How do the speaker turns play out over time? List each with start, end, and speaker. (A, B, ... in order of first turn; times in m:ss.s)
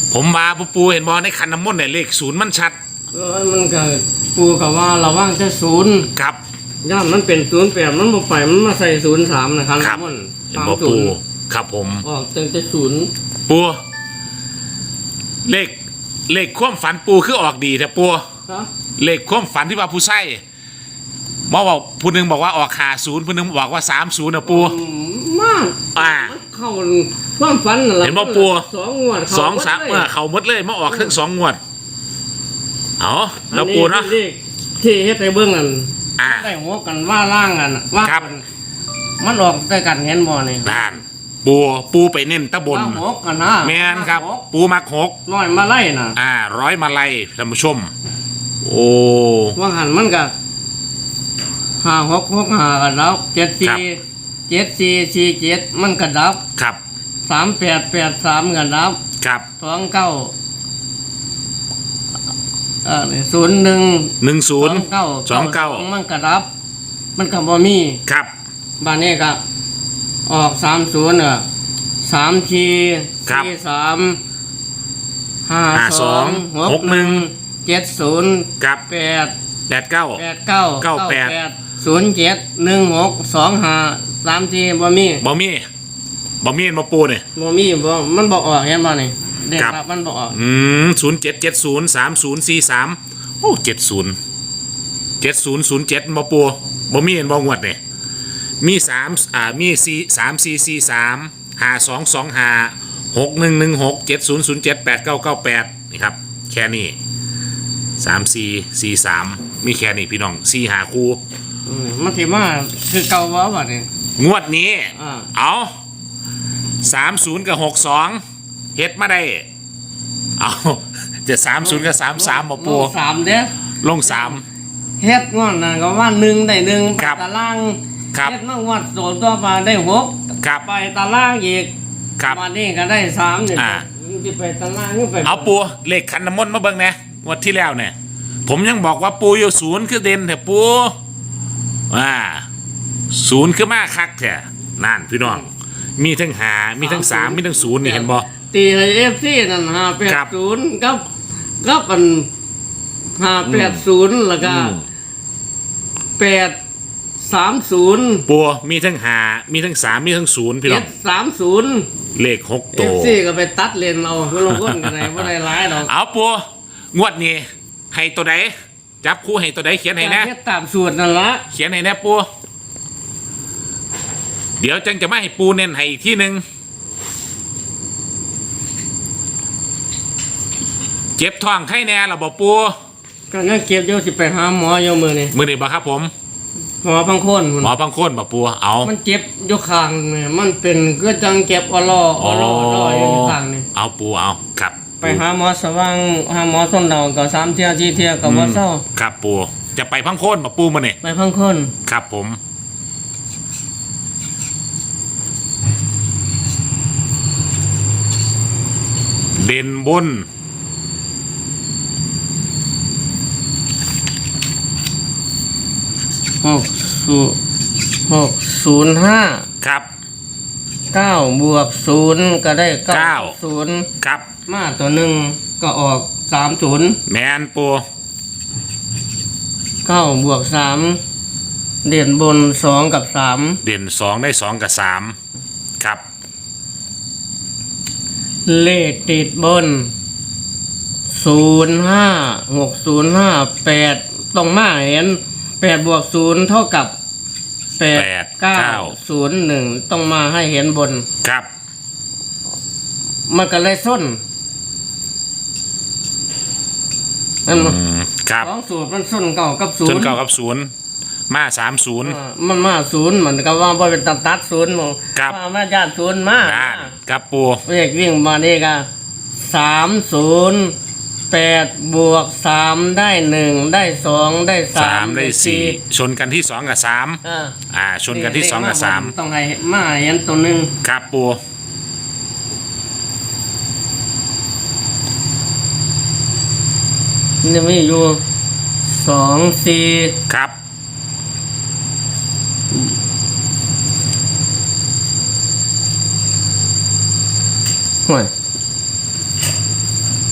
0:00.1-0:02.8 A
0:03.1-0:06.1 B
0:06.2-0:06.4 A
0:06.8-0:11.1 B
0:10.5-0:12.0 A
0:12.0-0:13.1 B
0:13.5-0:13.8 A
0:15.4-0:15.8 A
0:16.3-0:18.2 A
0:19.0-0:20.4 A
0:21.5-0:24.8 A
0:24.5-0:30.1 B
0:26.0-0:26.4 A
0:28.0-0:28.7 A
0:29.3-0:31.6 A
0:30.9-0:31.2 B
0:33.0-0:34.2 A
0:33.5-0:38.4 B
0:36.2-0:36.5 A
0:39.2-0:41.0 B
0:40.6-0:43.0 A
0:42.7-0:44.5 B
0:43.6-0:45.2 A
0:45.3-0:46.2 B
0:46.2-0:47.9 A
0:48.6-0:49.6 A
0:49.6-0:50.3 B
0:51.8-0:56.4 B
0:57.3-0:59.0 B
0:59.2-0:59.5 A
0:59.6-1:00.3 B
1:02.8-1:06.5 B
1:04.2-1:05.9 A
1:07.2-1:08.0 B
1:08.1-1:08.3 A
1:08.8-1:09.4 B
1:10.3-1:11.4 B
1:12.0-1:14.2 B
1:15.5-1:19.3 B
1:15.7-1:17.3 A
1:19.7-1:20.2 A
1:20.2-1:25.2 B
1:20.8-1:21.4 A
1:25.2-1:25.6 A
1:26.4-1:27.2 A
1:27.4-1:30.4 B
1:30.3-1:34.2 A
1:35.2-1:37.8 A
1:38.6-1:47.0 A
1:48.0-1:51.2 A
1:51.7-1:53.9 B
1:54.2-1:55.7 A
1:55.0-1:55.3 B
1:56.8-1:58.2 A
1:58.8-1:59.5 A
2:00.4-2:02.9 A
2:01.6-2:03.5 B
2:03.8-2:04.4 A
2:04.1-2:04.4 B
2:05.0-2:11.7 B
2:12.2-2:15.6 B
2:13.6-2:13.9 A
2:15.2-2:17.9 A
2:18.5-2:20.9 A
2:21.9-2:22.5 A
2:23.1-2:25.5 A
2:26.0-2:28.3 A
2:26.8-2:31.0 B
2:31.6-2:32.3 B
2:33.2-2:34.8 B
2:33.5-2:33.8 A
2:34.4-2:34.9 A
2:36.2-2:36.6 B
2:37.2-2:38.3 B
2:38.3-2:40.9 A
2:40.6-2:41.9 B
2:42.2-2:43.2 A
2:42.7-2:45.9 B
2:44.4-2:48.5 A
2:49.0-2:50.3 A
2:50.0-2:51.4 B
2:51.5-2:52.3 A
2:54.6-2:56.4 A
3:01.2-3:02.7 A
3:03.3-3:05.4 B
3:05.3-3:06.1 A
3:06.8-3:07.7 B
3:07.6-3:08.9 A
3:08.8-3:13.7 B
3:12.2-3:15.2 A
3:15.0-3:18.8 B
3:18.2-3:21.0 A
3:21.0-3:21.7 B
3:21.9-3:22.4 A
3:29.4-3:30.3 A
3:36.4-3:37.4 B
3:38.1-3:39.4 B
3:39.6-3:39.9 A
3:40.9-3:43.9 B
3:42.9-3:43.4 A
3:44.0-3:44.3 A
3:44.5-3:47.0 B
3:47.1-3:47.8 A
3:49.8-3:51.0 B
3:51.8-3:53.6 B
3:53.6-3:55.2 A
3:58.5-3:59.9 B
4:01.1-4:06.9 B
4:07.8-4:11.1 B
4:07.9-4:09.0 A
4:13.3-4:14.2 B
4:17.5-4:17.8 B
4:17.5-4:18.5 A
4:18.4-4:20.2 B
4:19.8-4:20.7 A
4:21.3-4:22.2 A
4:22.0-4:26.9 B
4:26.4-4:27.6 A
4:27.7-4:28.9 B
4:29.4-4:30.8 B
4:31.3-4:35.8 B
4:34.8-4:37.2 A
4:37.2-4:37.6 B
4:37.7-4:39.1 A
4:38.1-4:40.7 B
4:40.8-4:41.4 A
4:47.4-4:48.2 B
4:48.9-4:50.2 B
4:50.3-4:50.5 A
4:58.1-4:58.3 B